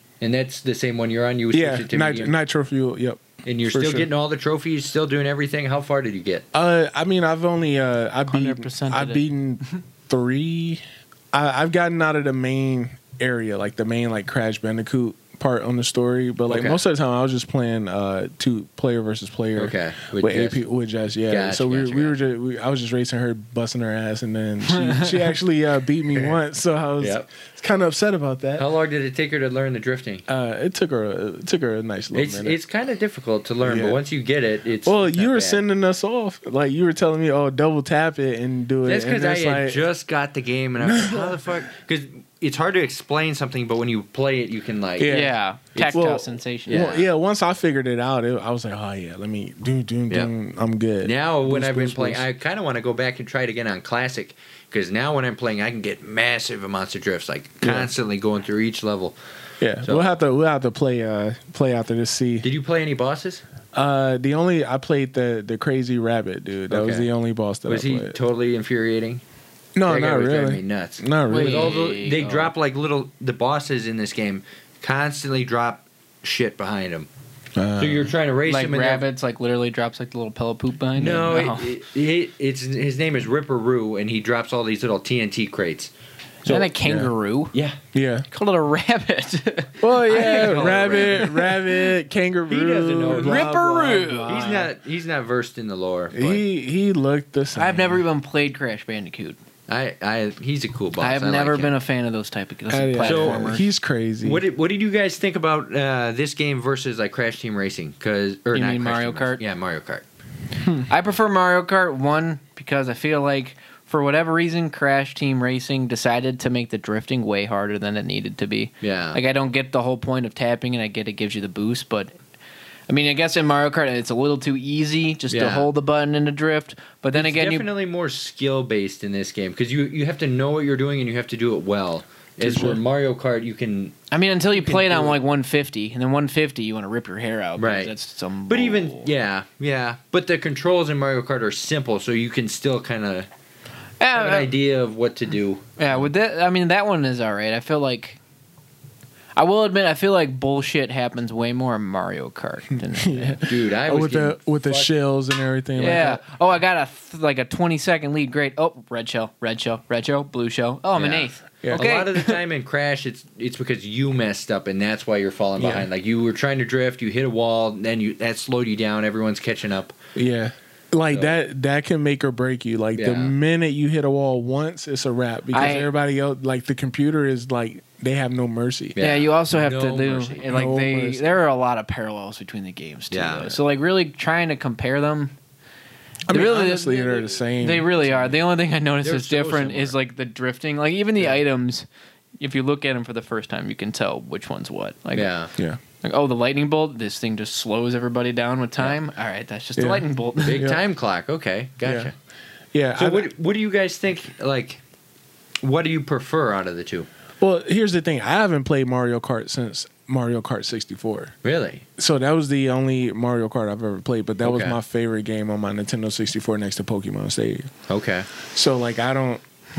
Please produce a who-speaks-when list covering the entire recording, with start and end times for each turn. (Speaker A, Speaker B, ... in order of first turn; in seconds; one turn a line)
Speaker A: 0.2-2.3
Speaker B: 1.5-4.1
Speaker A: 3.4-6.4
Speaker B: 6.5-28.7
Speaker C: 8.3-9.2
Speaker A: 16.5-16.8
Speaker A: 19.6-20.6
Speaker A: 21.3-22.1
Speaker C: 24.7-25.2
Speaker A: 27.0-27.2
Speaker A: 28.6-30.2
Speaker B: 30.3-32.6
Speaker A: 32.1-35.6
Speaker B: 33.6-34.0
Speaker B: 34.8-39.8
Speaker A: 38.8-45.2
Speaker B: 40.8-41.6
Speaker B: 45.0-45.3
Speaker C: 45.1-46.9
Speaker A: 45.7-46.0
Speaker B: 45.9-52.2
Speaker A: 46.7-47.1
Speaker A: 51.0-59.1
Speaker B: 57.6-57.9
Speaker B: 59.6-62.5
Speaker A: 59.8-60.1
Speaker A: 62.4-63.4
Speaker B: 63.7-68.2
Speaker A: 66.7-67.1
Speaker A: 67.7-69.2
Speaker B: 69.8-71.7
Speaker A: 69.9-77.1
Speaker C: 71.3-72.5
Speaker B: 77.5-78.1
Speaker A: 77.8-79.0
Speaker C: 78.5-81.7
Speaker A: 81.0-85.9
Speaker A: 86.4-86.7
Speaker C: 86.4-87.5
Speaker B: 86.8-87.1
Speaker A: 87.5-87.8
Speaker B: 87.9-88.3
Speaker C: 88.3-91.3
Speaker B: 89.8-94.7
Speaker A: 90.1-91.5
Speaker A: 92.5-93.5
Speaker C: 93.1-94.3
Speaker A: 94.2-96.4
Speaker B: 96.1-98.0
Speaker C: 97.5-99.4
Speaker A: 99.7-101.7
Speaker C: 101.0-103.6
Speaker B: 102.7-104.4
Speaker A: 103.0-103.5
Speaker A: 104.2-110.0
Speaker C: 108.5-109.4
Speaker C: 110.9-122.1
Speaker A: 118.8-119.2
Speaker C: 122.9-127.7
Speaker A: 125.3-125.7
Speaker A: 127.1-133.9
Speaker B: 132.4-132.8
Speaker C: 134.1-139.1
Speaker A: 134.6-135.2
Speaker A: 137.6-137.9
Speaker A: 138.5-143.3
Speaker C: 144.0-144.5
Speaker A: 144.1-145.8
Speaker C: 145.8-148.2
Speaker C: 149.3-153.4
Speaker B: 152.9-156.2
Speaker A: 153.4-154.9
Speaker C: 155.8-162.4
Speaker A: 160.9-169.9
Speaker B: 165.6-165.9
Speaker B: 170.1-179.0
Speaker A: 172.9-173.3
Speaker C: 175.5-175.9
Speaker A: 178.9-180.6
Speaker C: 179.0-185.3
Speaker B: 180.5-181.3
Speaker A: 183.1-183.6
Speaker B: 186.3-188.3
Speaker C: 186.3-191.8
Speaker A: 189.0-189.9
Speaker C: 192.4-195.3
Speaker A: 195.1-195.5
Speaker C: 196.0-200.7
Speaker B: 199.8-200.8
Speaker A: 200.4-202.1
Speaker B: 201.8-202.1
Speaker B: 202.7-203.3
Speaker A: 202.9-204.8
Speaker A: 205.6-207.1
Speaker B: 207.4-211.3
Speaker A: 211.4-211.8
Speaker B: 212.0-217.7
Speaker A: 214.4-214.8
Speaker A: 217.9-218.3
Speaker B: 218.5-219.4